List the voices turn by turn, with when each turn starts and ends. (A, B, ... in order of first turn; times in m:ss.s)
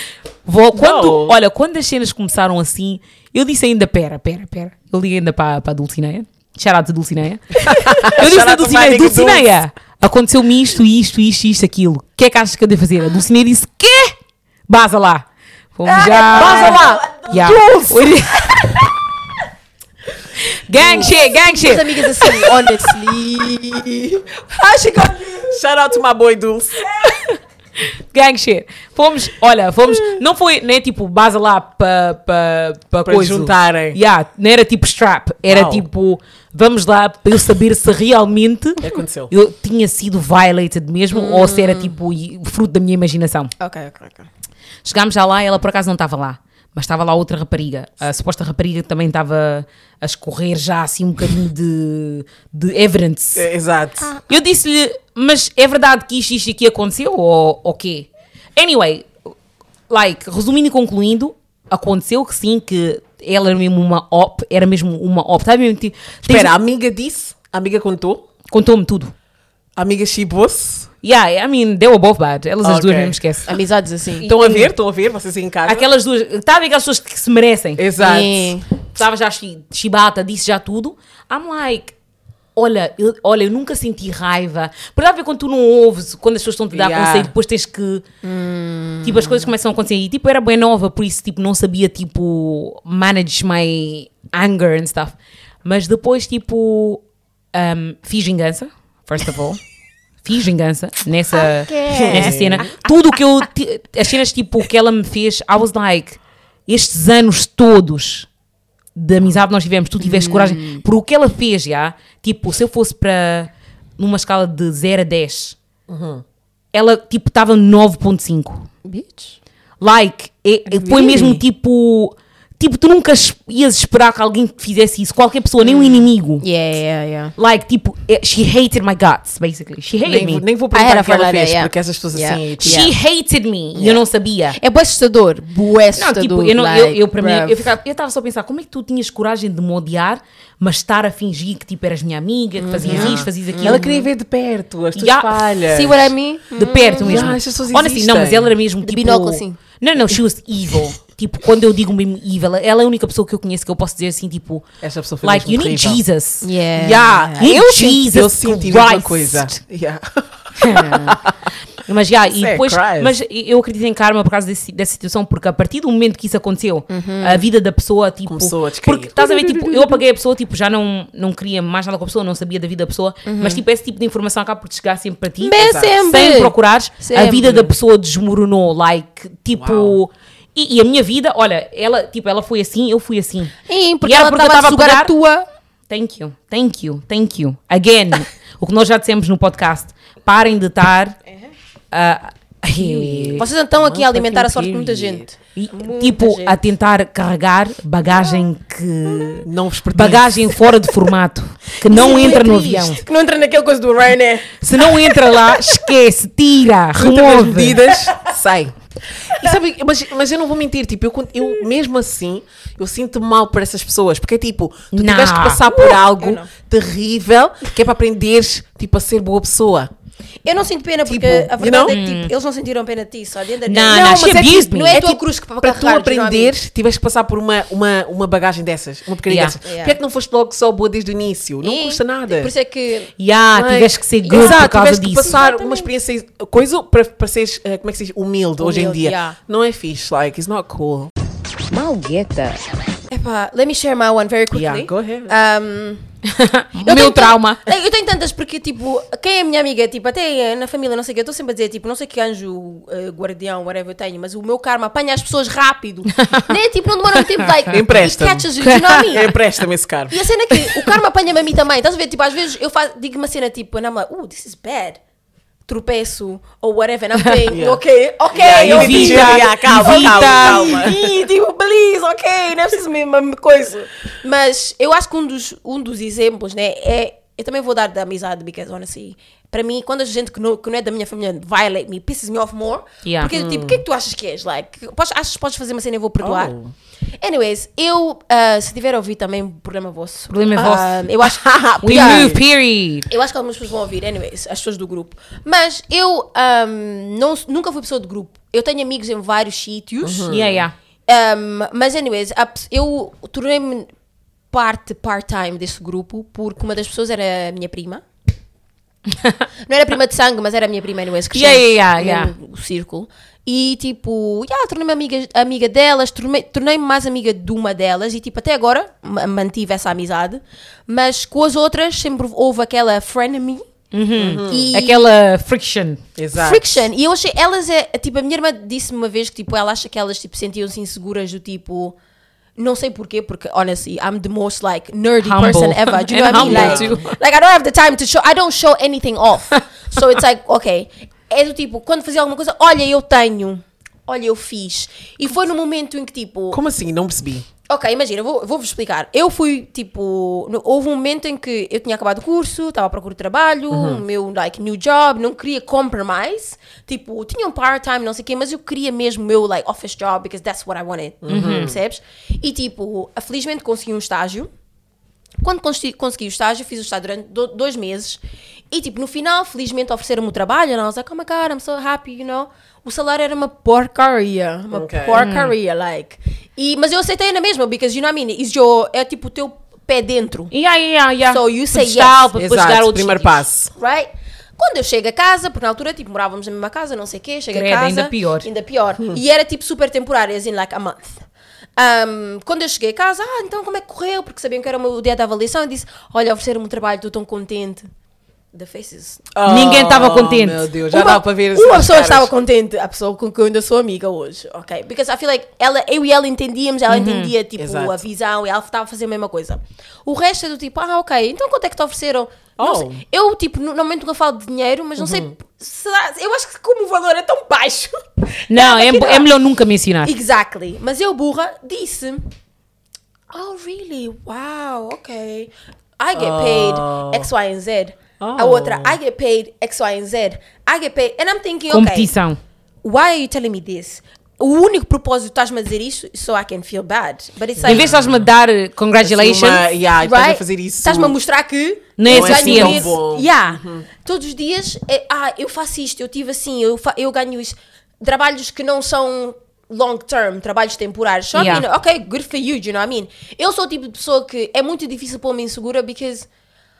0:00.5-0:14.2 A
0:00.7-0:01.4 B
0:07.6-0:09.5 B
0:14.7-0:15.2 A
0:15.8-0:18.9 A
0:15.8-0:18.8 C
0:16.3-0:18.0 B
0:20.4-0:22.6 A
0:20.8-0:25.6 C
0:25.5-0:26.9 B
0:27.3-0:43.5 A
0:33.0-0:34.0 B
0:35.5-0:35.9 B
0:38.8-0:39.3 B
0:41.1-0:42.0 C
0:43.6-0:44.3 C
0:44.8-0:53.5 A
0:53.4-0:54.1 B
0:54.3-0:59.1 A
0:59.9-1:06.5 A
1:06.2-1:08.3 B
1:08.5-1:09.1 A
1:09.8-1:10.9 B
1:11.0-1:13.5 A
1:12.6-1:13.2 B
1:13.5-1:14.3 C
1:14.2-1:14.7 A
1:14.2-1:15.9 B
1:15.7-1:17.8 A
1:17.8-1:18.6 B
1:18.0-1:18.7 C
1:18.9-1:21.9 A
1:22.6-1:28.0 A
1:26.7-1:27.3 B
1:28.2-1:29.5 C
1:29.0-1:37.0 A
1:37.5-1:39.6 A
1:40.2-1:48.3 A
1:41.3-1:42.7 C
1:41.9-1:42.7 B
1:49.0-1:55.6 A
1:50.0-1:50.8 C
1:55.9-1:56.2 B
1:56.7-1:58.7 A
1:58.8-1:59.4 C
1:59.8-2:06.4 A
2:00.7-2:01.4 C
2:05.6-2:07.3 C
2:07.4-2:10.4 A
2:10.0-2:12.9 B
2:10.7-2:12.9 C
2:12.6-2:14.6 A
2:13.8-2:14.0 C
2:14.6-2:17.7 C
2:16.0-2:23.9 A
2:22.6-2:24.0 C
2:22.8-2:26.1 B
2:25.0-2:25.4 A
2:25.7-2:27.4 C
2:26.6-2:34.6 A
2:27.0-2:28.5 B
2:28.8-2:29.6 C
2:34.8-2:36.0 B
2:35.2-2:36.5 A
2:36.4-2:37.6 C
2:36.8-2:41.4 B
2:37.4-2:39.5 A
2:40.6-2:41.2 A
2:41.8-3:05.1 A
2:42.3-2:43.2 B
2:46.9-2:47.4 C
2:48.3-2:49.2 B
2:49.2-2:50.0 C
2:53.3-2:53.6 C
2:55.4-2:57.7 C
2:55.6-2:55.9 B
2:59.6-3:00.0 B
3:03.7-3:05.5 C
3:05.9-3:11.2 A
3:11.9-3:13.5 A
3:12.8-3:15.3 B
3:13.4-3:16.6 C
3:15.6-3:23.0 A
3:19.4-3:20.6 B
3:21.9-3:25.8 C
3:24.6-3:27.8 A
3:26.9-3:28.8 B
3:29.3-3:39.9 B
3:34.9-3:35.6 A
3:35.7-3:36.5 C
3:40.4-3:46.5 C
3:41.1-3:42.0 B
3:41.7-3:42.3 A
3:43.7-3:45.0 A
3:44.0-3:52.5 B
3:49.3-3:49.6 A
3:49.6-3:50.0 C
3:51.6-3:53.1 C
3:53.2-3:55.4 A
3:53.5-4:01.1 B
3:54.2-3:55.9 C
3:58.6-3:59.4 C
4:01.7-4:02.7 A
4:03.1-4:06.1 C
4:04.5-4:05.3 B
4:06.3-4:07.6 A
4:06.8-4:19.4 C
4:16.2-4:16.5 A
4:17.7-4:20.2 B
4:18.6-4:19.0 A
4:20.1-4:25.0 C
4:25.7-4:46.5 C
4:27.5-4:31.1 B
4:28.6-4:30.8 A
4:43.0-4:43.3 A
4:43.3-4:43.8 B
4:46.2-4:46.7 B
4:47.2-4:52.4 C
4:50.3-4:51.0 A
4:51.5-4:52.4 B
4:51.8-4:53.1 A
4:53.1-5:00.4 C
5:00.0-5:00.7 B
5:00.3-5:00.7 A
5:01.1-5:03.9 C
5:04.5-5:08.0 C
5:09.7-5:23.7 C
5:11.3-5:12.3 A
5:23.9-5:26.0 A
5:24.2-5:24.7 B
5:24.4-5:25.0 C
5:26.2-5:26.9 B
5:26.3-5:32.0 C
5:32.6-5:46.6 C
5:35.2-5:37.2 A
5:36.3-5:37.1 B
5:46.5-5:47.5 B
5:47.7-6:04.5 C
5:53.7-5:54.0 B
6:01.2-6:01.8 B
6:01.3-6:01.8 A
6:05.4-6:20.5 C
6:14.7-6:15.3 B
6:15.2-6:15.6 A
6:20.5-6:23.4 A
6:21.3-6:22.2 C
6:22.4-6:23.7 B
6:23.8-6:37.9 C
6:27.5-6:28.5 A
6:38.5-6:39.3 C
6:39.3-6:42.3 B
6:39.4-6:40.6 A
6:40.9-6:59.3 C
6:46.9-6:47.3 A
6:47.6-6:48.0 B
6:52.6-6:53.0 B
6:55.0-6:55.3 B
6:58.5-7:00.1 A
7:00.0-7:02.2 C
7:03.3-7:12.1 C
7:06.2-7:07.3 B
7:08.2-7:09.0 B
7:11.7-7:12.4 A
7:12.8-7:17.9 C
7:17.6-7:18.3 B
7:17.6-7:19.7 A
7:19.0-7:21.2 B
7:20.0-7:36.3 C
7:22.0-7:22.9 A
7:22.1-7:23.9 B
7:31.3-7:31.7 A